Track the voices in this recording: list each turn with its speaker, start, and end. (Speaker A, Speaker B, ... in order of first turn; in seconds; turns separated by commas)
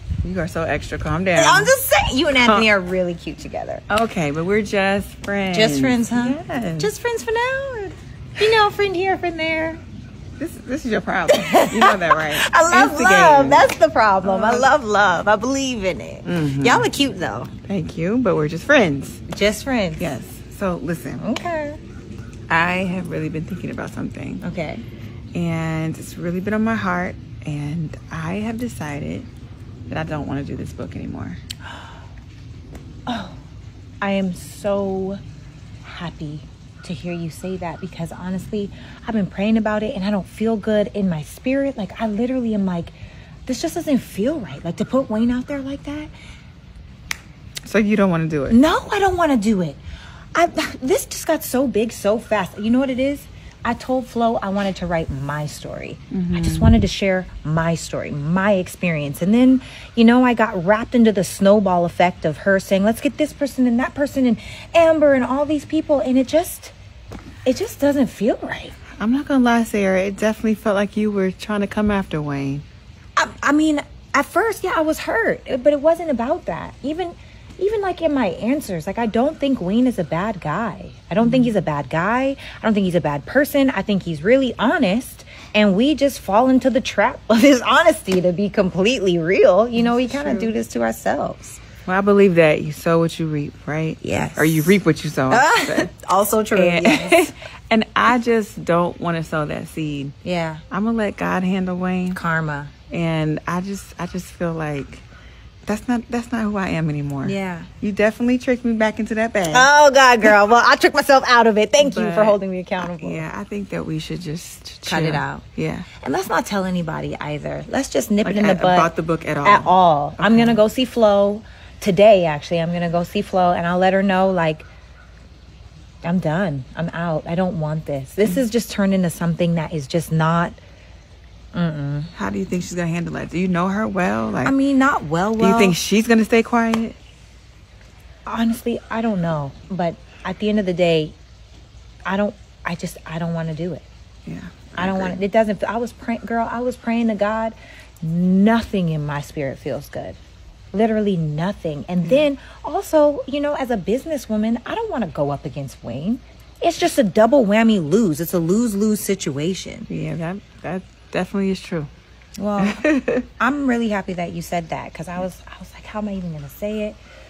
Speaker A: 0.2-1.7, Speaker B: 1.3-3.8, Speaker A: 2.4-2.7, Speaker A: 3.9-6.9, Speaker B: 5.5-9.8, Speaker A: 10.4-13.7, Speaker B: 11.3-17.5, Speaker A: 14.2-14.7, Speaker A: 16.2-16.9, Speaker A: 17.6-19.2, Speaker B: 19.3-20.1, Speaker A: 20.0-21.2, Speaker B: 21.2-21.8, Speaker A: 22.5-24.4, Speaker B: 24.4-24.8, Speaker A: 25.3-29.3, Speaker A: 29.9-31.4, Speaker B: 33.1-33.4, Speaker B: 34.0-35.2, Speaker B: 35.8-42.9, Speaker B: 43.5-46.1, Speaker A: 47.7-48.6, Speaker B: 48.5-49.8, Speaker B: 50.3-66.7, Speaker A: 56.1-56.7, Speaker B: 67.5-68.8, Speaker A: 69.0-72.6, Speaker B: 73.2-91.6, Speaker A: 81.2-81.5, Speaker A: 89.8-90.5, Speaker A: 91.9-95.9, Speaker B: 94.0-97.3, Speaker A: 96.5-100.1, Speaker B: 100.2-100.6, Speaker A: 100.7-102.2, Speaker B: 102.1-102.7, Speaker A: 102.9-105.1, Speaker A: 105.7-109.7, Speaker B: 107.2-107.7, Speaker B: 109.5-113.3, Speaker A: 111.8-115.9, Speaker B: 114.9-115.4, Speaker B: 116.0-118.9, Speaker A: 118.2-120.6, Speaker B: 119.4-124.7, Speaker B: 126.0-130.6, Speaker B: 131.5-132.1, Speaker A: 132.1-134.5, Speaker B: 134.4-135.8, Speaker A: 135.4-136.9, Speaker B: 138.2-141.2, Speaker B: 142.0-143.9, Speaker A: 144.2-145.2, Speaker B: 144.8-150.2, Speaker B: 150.7-159.9, Speaker A: 159.9-161.9, Speaker B: 162.4-162.8, Speaker A: 162.6-163.2, Speaker B: 163.4-167.0